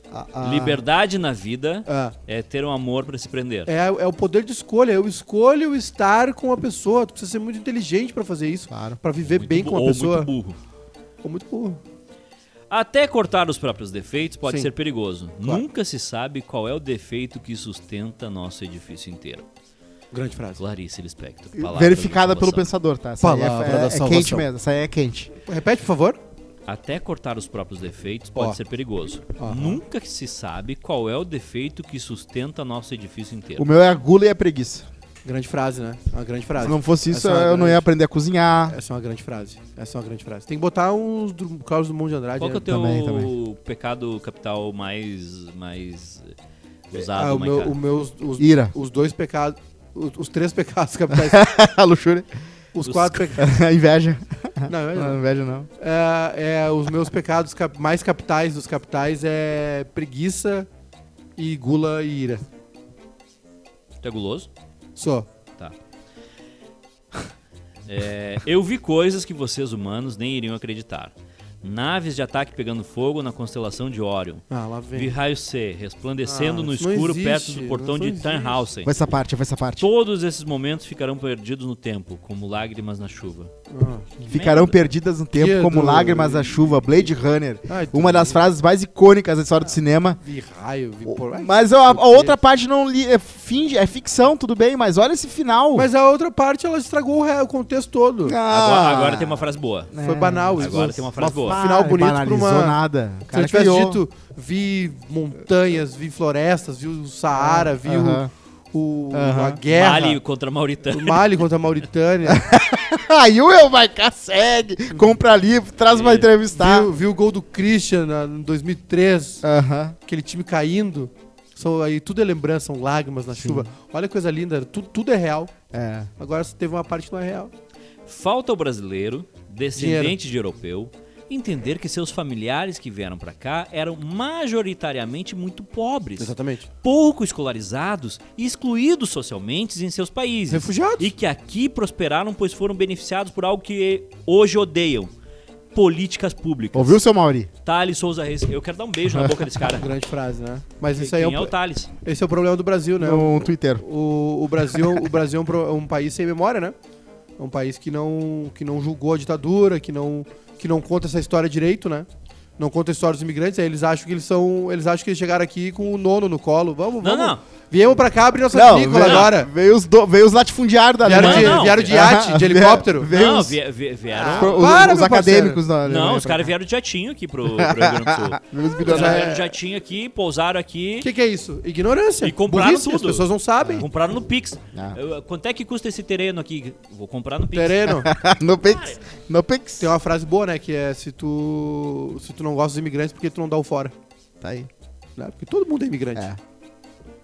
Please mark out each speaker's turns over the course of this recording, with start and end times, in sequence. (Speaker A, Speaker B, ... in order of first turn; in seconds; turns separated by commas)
Speaker A: 0.1-0.8, Speaker B: 0.4-3.7, Speaker C: 1.9-2.1, Speaker C: 3.7-10.3, Speaker A: 8.7-9.0, Speaker B: 9.3-10.6, Speaker C: 11.2-11.8, Speaker B: 12.7-19.4, Speaker C: 20.1-20.6, Speaker B: 20.6-22.7, Speaker A: 21.6-25.3, Speaker C: 23.2-24.5, Speaker C: 25.5-26.2, Speaker B: 26.7-33.7, Speaker C: 29.4-29.8, Speaker A: 33.6-34.9, Speaker C: 35.2-37.9, Speaker A: 36.6-38.8, Speaker C: 38.7-42.7, Speaker B: 42.4-46.3, Speaker A: 42.6-43.3, Speaker B: 46.9-47.8, Speaker C: 47.0-51.5, Speaker A: 48.4-48.7, Speaker A: 51.1-52.3, Speaker C: 52.7-53.5, Speaker B: 52.9-53.3, Speaker A: 53.4-55.7, Speaker C: 54.7-55.2, Speaker C: 55.8-60.7, Speaker C: 61.4-62.4, Speaker B: 64.0-64.5, Speaker C: 65.0-65.3, Speaker B: 67.9-78.9, Speaker C: 74.5-75.1, Speaker C: 76.2-78.6, Speaker A: 78.8-79.9, Speaker B: 79.8-83.5, Speaker C: 83.7-84.3, Speaker A: 84.3-90.2, Speaker B: 84.3-84.8, Speaker C: 85.3-86.8, Speaker C: 87.7-88.4, Speaker C: 90.2-92.4, Speaker A: 91.1-95.9, Speaker C: 95.8-98.4, Speaker A: 98.2-104.0, Speaker B: 98.5-99.9, Speaker C: 100.0-102.8, Speaker B: 100.6-101.6, Speaker C: 103.3-110.2, Speaker A: 107.3-108.3, Speaker A: 109.1-109.6, Speaker B: 109.7-111.2, Speaker C: 110.9-112.5, Speaker A: 112.3-116.9, Speaker B: 115.9-116.3, Speaker C: 116.5-119.5, Speaker A: 119.4-120.0, Speaker C: 120.0-125.5, Speaker A: 123.4-123.7, Speaker A: 125.7-126.1, Speaker C: 126.2-127.5, Speaker B: 128.1-136.3, Speaker C: 129.8-130.2, Speaker C: 136.2-136.7, Speaker B: 136.8-145.1, Speaker C: 140.5-141.1, Speaker B: 145.7-147.0, Speaker A: 146.7-147.5, Speaker B: 147.6-149.9, Speaker A: 149.1-149.5, Speaker C: 149.7-151.5, Speaker B: 150.9-151.9, Speaker C: 152.0-156.8, Speaker A: 153.0-153.8, Speaker A: 154.7-155.0, Speaker C: 157.4-162.1, Speaker C: 162.6-169.5, Speaker B: 167.0-167.4, Speaker A: 168.5-173.6, Speaker B: 169.0-169.3, Speaker C: 171.0-173.1, Speaker B: 171.1-172.1, Speaker B: 173.1-174.7, Speaker C: 174.1-175.6, Speaker A: 174.3-176.5, Speaker B: 175.8-181.1, Speaker A: 177.6-179.5, Speaker C: 178.8-179.4, Speaker C: 181.0-183.8, Speaker B: 182.2-187.9, Speaker C: 187.5-188.1, Speaker A: 187.9-189.9, Speaker B: 188.6-189.0, Speaker C: 189.8-193.9, Speaker A: 194.4-194.7, Speaker C: 195.2-196.3